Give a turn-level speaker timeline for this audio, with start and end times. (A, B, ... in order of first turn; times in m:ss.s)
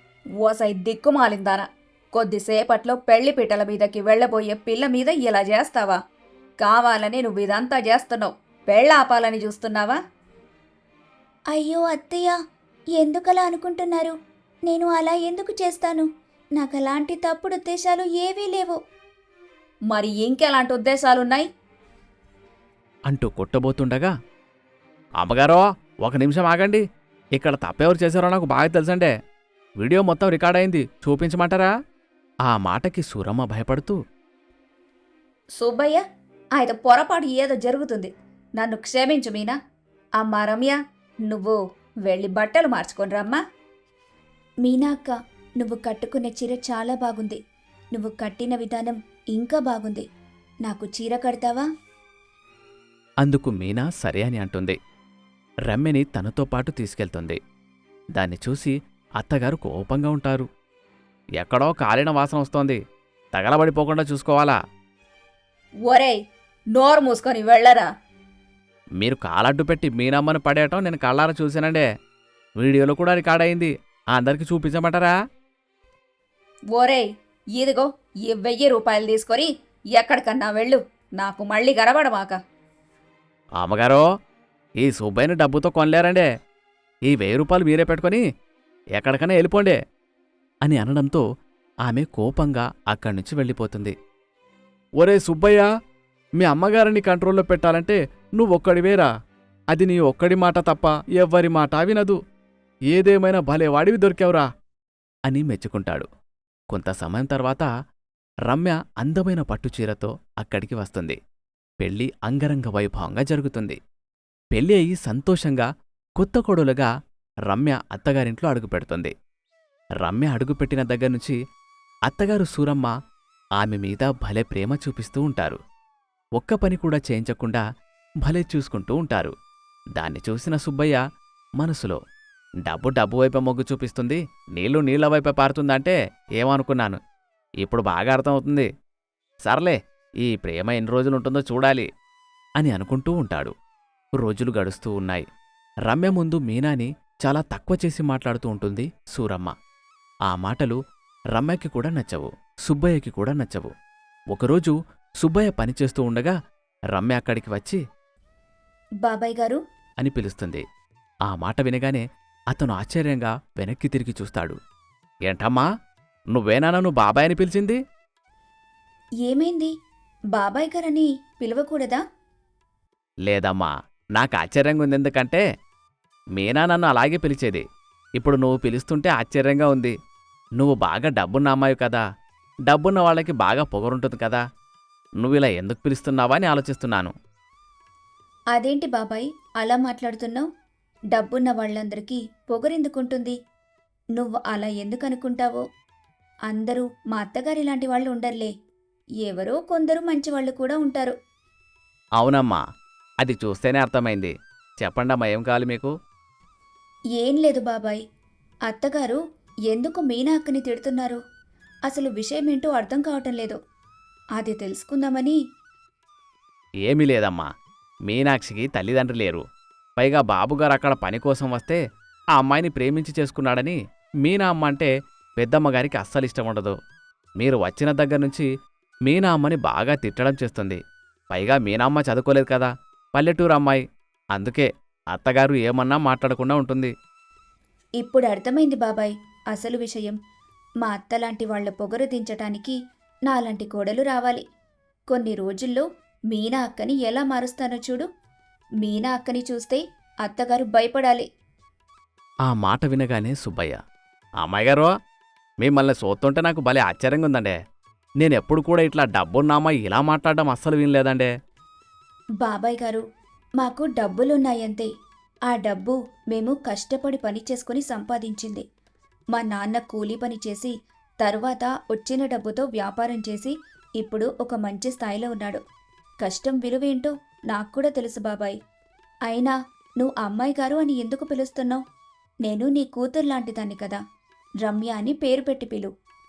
0:00.4-0:06.0 A
0:06.6-0:10.0 A
0:11.5-0:12.4 B
0:13.0-0:14.2 B
0:14.7-0:18.8 B
0:19.9-0:21.5 A
0:23.1-0:24.1 C
0:25.2-0:26.8 C
0:27.4-0:29.1 C
0:29.8-0:31.7 C
0:32.5-0:34.0 C
0:35.6-0:36.0 A
0:36.6-0:39.6 A
0:40.2-0:43.4 A
0:44.6-0:47.4 B
0:48.0-0:50.1 B
0:50.7-0:51.6 B
0:53.2-0:54.8 C
0:55.7-0:57.4 C
0:58.2-1:00.5 C
1:01.4-1:02.8 C
1:03.3-1:04.6 C
1:05.9-1:06.2 A
1:06.7-1:07.9 A
1:09.0-1:11.9 C
1:12.6-1:15.2 C
1:16.7-1:22.4 A
1:23.6-1:24.0 C
1:24.8-1:26.3 C
1:27.1-1:28.2 C
1:29.0-1:29.8 C
1:30.6-1:31.2 C
1:31.9-1:34.0 C
1:35.0-1:35.7 C
1:36.4-1:39.1 C
1:39.7-1:42.2 C
1:42.9-1:44.5 C
1:45.3-1:46.1 C
1:46.7-1:47.7 C
1:48.5-1:51.2 C
1:51.8-1:53.8 C
1:54.5-1:56.9 C
1:57.5-1:59.1 C
2:00.0-2:01.4 C
2:02.1-2:02.9 C
2:03.6-2:05.6 C
2:06.4-2:07.6 C
2:08.2-2:09.3 C
2:10.0-2:11.0 C
2:11.6-2:12.0 C
2:12.6-2:17.0 C
2:17.6-2:18.7 C
2:19.4-2:21.9 C
2:22.6-2:23.5 C
2:24.2-2:25.3 C
2:25.9-2:29.5 C
2:30.3-2:30.8 C
2:31.3-2:33.7 C
2:34.3-2:36.4 C
2:36.9-2:37.8 C
2:39.0-2:39.6 B
2:40.0-2:40.6 C
2:41.3-2:44.6 C
2:45.3-2:45.7 C
2:46.3-2:47.8 C
2:49.3-2:49.7 B
2:50.4-2:52.0 B
2:51.6-2:51.8 A
2:53.3-2:55.4 C
2:56.4-2:57.6 C
2:58.2-3:00.0 C
3:00.6-3:02.0 C
3:02.7-3:04.4 C
3:05.2-3:07.1 C
3:08.6-3:10.5 B
3:11.1-3:13.4 B
3:14.2-3:15.6 B
3:16.5-3:18.5 B
3:19.3-3:21.1 B
3:22.2-3:22.6 C
3:23.2-3:25.9 C
3:27.2-3:28.0 B
3:28.7-3:31.2 B
3:31.9-3:33.6 B
3:34.4-3:35.4 B
3:36.9-3:37.5 C
3:38.1-3:39.4 C
3:40.0-3:41.8 C
3:42.4-3:46.8 C
3:47.4-3:48.5 C
3:49.1-3:50.8 C
3:51.3-3:53.8 C
3:54.4-3:56.9 C
3:58.0-4:00.2 B
4:00.8-4:02.8 B
4:03.3-4:04.4 B
4:05.1-4:08.1 B
4:08.9-4:09.3 A
4:09.0-4:11.2 B
4:10.5-4:11.1 A
4:12.5-4:13.8 C
4:14.4-4:14.9 C
4:15.6-4:17.6 C
4:18.2-4:21.3 C
4:22.4-4:23.0 B
4:23.6-4:24.9 B
4:25.5-4:28.6 B
4:29.3-4:35.6 B
4:36.2-4:38.6 B
4:39.3-4:41.8 B
4:42.4-4:44.0 B
4:44.6-4:45.9 B